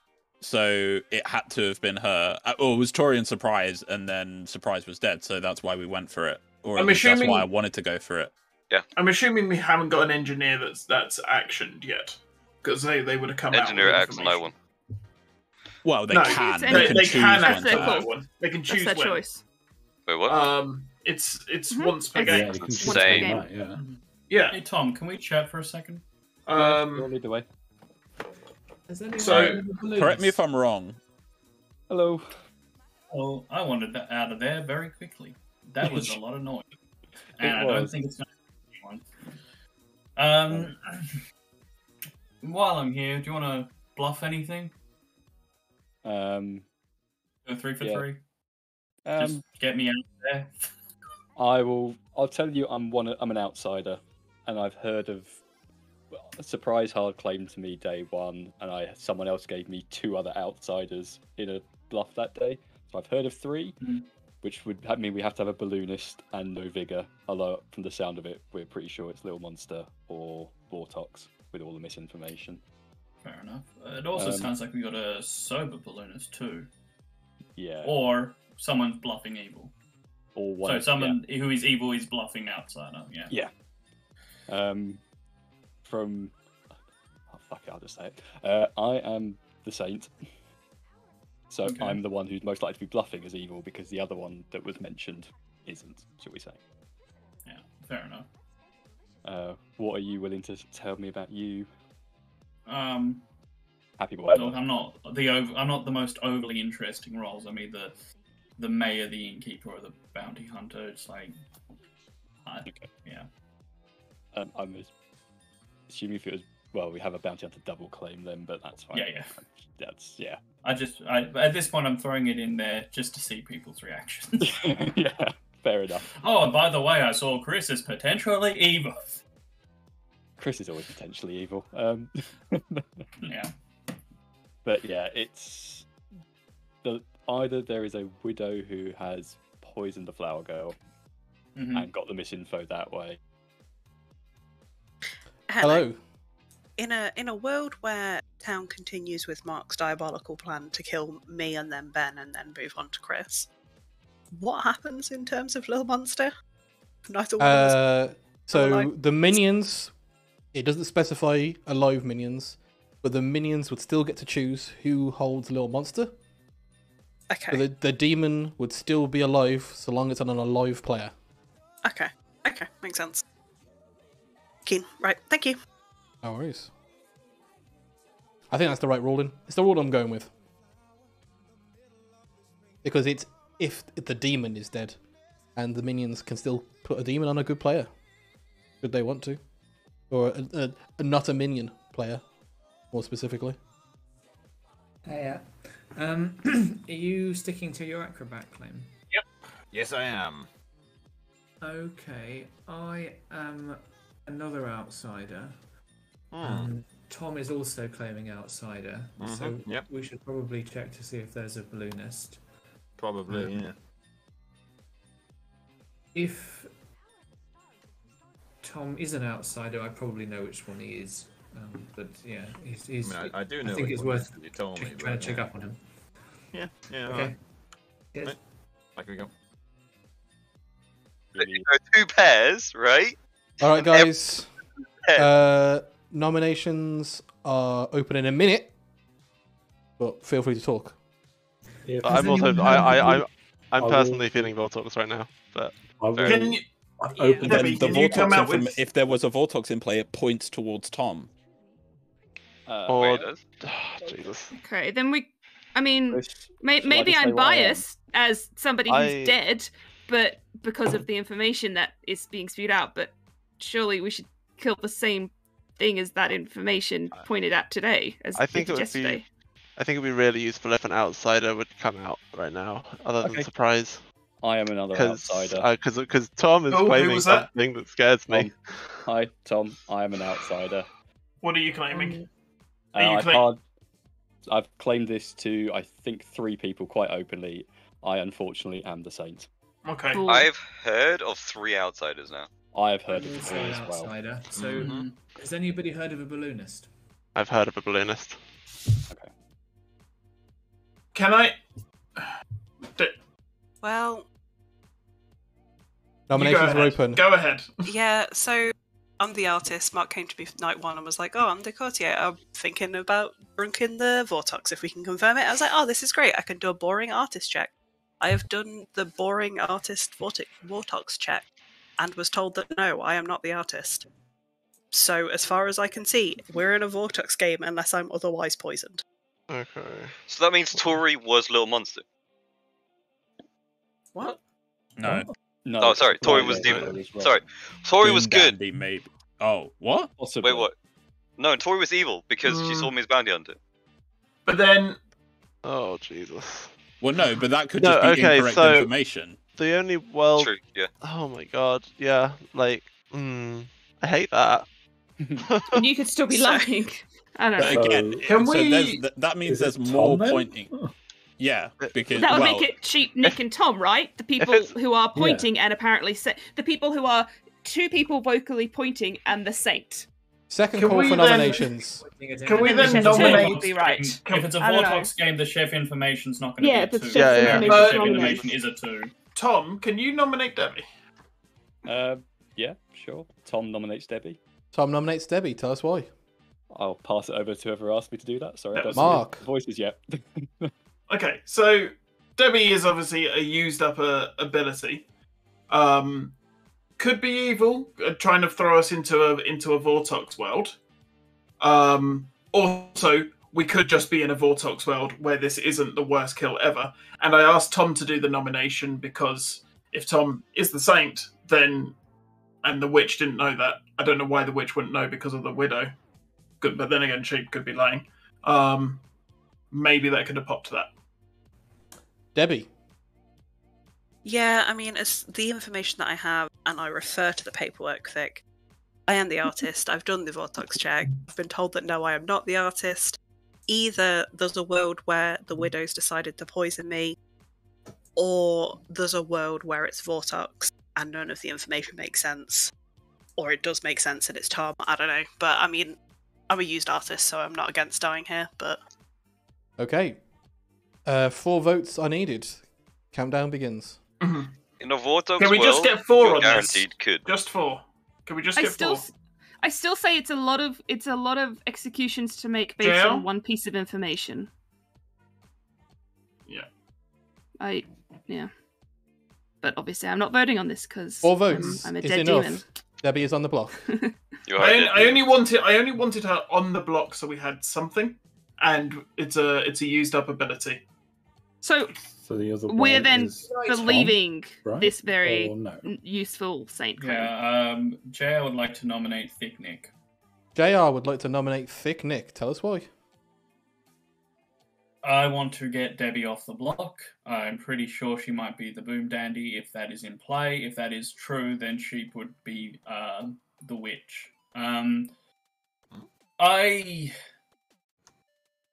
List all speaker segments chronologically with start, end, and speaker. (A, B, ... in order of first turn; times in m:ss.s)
0:00.4-0:08.3 A
0:06.8-0:07.5 B
0:09.0-0:14.5 B
0:13.5-0:14.6 C
0:15.8-0:18.1 A
0:16.1-0:19.2 B
0:16.2-0:19.4 D
0:20.1-0:20.5 C
0:20.3-0:22.6 B
0:21.7-0:23.5 D
0:22.2-0:23.8 E
0:22.3-0:23.5 C
0:24.3-0:24.6 B
0:24.5-0:26.0 F
0:26.5-0:27.1 B
0:26.5-0:27.5 G
0:28.9-0:30.4 H
0:29.2-0:29.7 B
0:29.2-0:31.0 A
0:31.9-0:32.3 G
0:33.1-0:36.7 F
0:35.8-0:36.2 G
0:37.4-0:39.1 F
0:37.4-0:38.0 G
0:40.2-0:41.2 F
0:42.4-0:44.7 F
0:46.0-0:46.6 G
0:47.5-0:48.2 F
0:47.8-0:48.1 G
0:49.0-0:49.4 G
0:49.2-0:50.7 F
0:51.4-0:55.4 G
0:56.1-1:03.8 G
1:03.8-1:04.1 F
1:04.4-1:12.6 G
1:13.2-1:16.7 F
1:14.1-1:14.6 G
1:17.6-1:18.0 G
1:17.8-1:19.7 F
1:20.4-1:21.2 G
1:20.6-1:23.4 F
1:23.3-1:23.6 G
1:24.5-1:25.0 G
1:25.8-1:26.3 G
1:27.3-1:30.1 G
1:31.5-1:36.6 G
1:31.6-1:32.0 F
1:37.4-1:38.3 F
1:39.2-1:41.7 G
1:42.7-1:43.2 F
1:44.0-1:44.6 G
1:44.3-1:48.0 F
1:48.6-1:51.3 F
1:52.4-1:53.3 F
1:54.3-1:54.9 G
1:55.9-2:00.4 G
1:58.9-1:59.4 F
2:00.6-2:04.5 F
2:04.4-2:06.1 G
2:06.2-2:09.2 F
2:10.4-2:12.8 G
2:13.2-2:13.5 F
2:14.6-2:15.9 G
2:16.8-2:20.8 G
2:21.6-2:21.9 F
2:21.7-2:23.2 G
2:25.5-2:25.9 I
2:25.6-2:26.0 J
2:26.8-2:33.5 I
2:34.4-2:36.3 I
2:37.1-2:38.0 I
2:37.4-2:39.9 J
2:38.5-2:38.9 I
2:40.5-2:46.1 J
2:47.3-2:47.6 I
2:47.5-2:51.1 J
2:51.8-2:53.2 I
2:54.6-2:55.6 I
2:56.2-2:56.7 J
2:58.5-3:00.3 J
3:02.8-3:05.0 J
3:05.6-3:07.9 J
3:08.8-3:09.4 J
3:10.1-3:12.2 J
3:12.9-3:13.6 J
3:15.0-3:19.2 H
3:19.7-3:20.5 K
3:21.6-3:25.8 H
3:26.3-3:26.9 K
3:26.4-3:32.6 H
3:29.2-3:29.9 K
3:33.0-3:33.8 K
3:33.3-3:33.6 H
3:36.1-3:37.0 H
3:38.6-3:46.4 H
3:43.0-3:45.7 K
3:46.5-3:47.5 K
3:47.0-3:48.6 H
3:48.2-3:49.3 K
3:51.3-3:51.6 G
3:51.4-3:53.2 C
3:53.6-3:54.5 J
3:55.2-3:58.7 J
4:00.0-4:01.0 J
4:01.8-4:03.2 E
4:02.0-4:03.2 H
4:02.0-4:05.8 L
4:03.8-4:04.5 E
4:06.0-4:08.7 E
4:06.2-4:06.6 C
4:06.3-4:06.6 B
4:07.4-4:08.7 B
4:07.4-4:11.3 A
4:12.7-4:13.2 G
4:12.9-4:14.5 L
4:13.0-4:13.4 C
4:14.6-4:29.2 D
4:16.1-4:17.8 G
4:18.9-4:19.4 L
4:28.4-4:29.2 L
4:29.8-4:34.0 L
4:33.2-4:33.5 G
4:34.4-4:35.7 G
4:34.9-4:39.1 L
4:36.7-4:37.5 B
4:39.0-4:40.9 G
4:41.4-4:42.2 B
4:42.9-4:43.6 G
4:43.0-4:43.5 B
4:44.5-4:49.5 G
4:49.8-4:50.2 B
4:50.1-4:50.5 D
4:50.3-4:52.5 C
4:52.7-4:54.2 G
4:53.1-4:57.0 H
4:54.5-4:55.1 K
4:54.8-4:55.2 F
4:57.4-4:58.4 L
5:01.1-5:01.6 B
5:02.2-5:03.2 B
5:03.8-5:04.3 I
5:06.3-5:07.2 J
5:06.3-5:07.9 B
5:07.9-5:24.1 I
5:24.9-5:29.0 I
5:29.5-5:30.2 L
5:30.3-5:32.0 C
5:35.6-5:37.5 G
5:35.8-5:38.6 C
5:36.2-5:36.7 L
5:36.7-5:36.9 E
5:38.0-5:40.1 A
5:40.2-5:40.7 G
5:40.4-5:40.7 C
5:41.4-5:43.6 C
5:42.4-5:42.9 B
5:44.4-5:45.0 B
5:45.6-5:46.7 L
5:47.0-5:49.4 A
5:47.8-5:48.9 L
5:49.5-5:54.7 L
5:50.4-5:50.9 C
5:55.4-5:55.8 L
5:55.7-5:57.8 D
5:56.3-5:56.7 I
5:57.6-6:00.7 A
5:57.7-5:58.4 E
5:58.3-5:59.0 B
5:59.4-6:00.9 E
6:01.4-6:02.7 A
6:01.8-6:02.0 L
6:02.1-6:10.1 D
6:04.4-6:04.8 L
6:05.1-6:05.5 E
6:10.5-6:12.0 J
6:10.8-6:11.6 B
6:10.8-6:13.4 H
6:12.4-6:14.6 B
6:12.6-6:15.1 D
6:12.8-6:19.1 F
6:16.6-6:18.6 D
6:17.1-6:17.7 L
6:17.6-6:18.4 B
6:19.4-6:20.9 B
6:21.9-6:24.4 G
6:24.7-6:26.1 J
6:26.7-6:30.7 G
6:28.8-6:29.2 B
6:28.9-6:29.4 J
6:31.1-6:35.0 B
6:35.7-6:36.4 B
6:37.0-6:40.8 B
6:41.6-6:52.0 B
6:52.6-6:55.9 B
6:56.6-6:59.0 B
6:59.7-7:00.9 B
7:02.4-7:02.7 J
7:04.2-7:08.4 I
7:09.1-7:17.2 I
7:18.2-7:22.7 I
7:23.4-7:26.0 I
7:26.5-7:28.8 I
7:29.8-7:30.2 J
7:31.1-7:34.0 J
7:34.2-7:34.5 B
7:34.8-7:37.3 C
7:35.4-7:39.0 B
7:38.6-7:44.5 D
7:42.8-7:43.2 B
7:47.6-7:48.5 D
7:49.6-7:52.6 D
7:51.2-7:53.9 J
7:51.6-7:51.8 B
7:54.5-7:55.3 C
7:54.6-8:00.8 B
8:01.6-8:02.0 D
8:02.1-8:05.9 E
8:02.7-8:07.3 D
8:03.4-8:04.0 H
8:07.0-8:09.9 F
8:10.6-8:12.9 J
8:15.0-8:25.1 F
8:26.4-8:27.1 F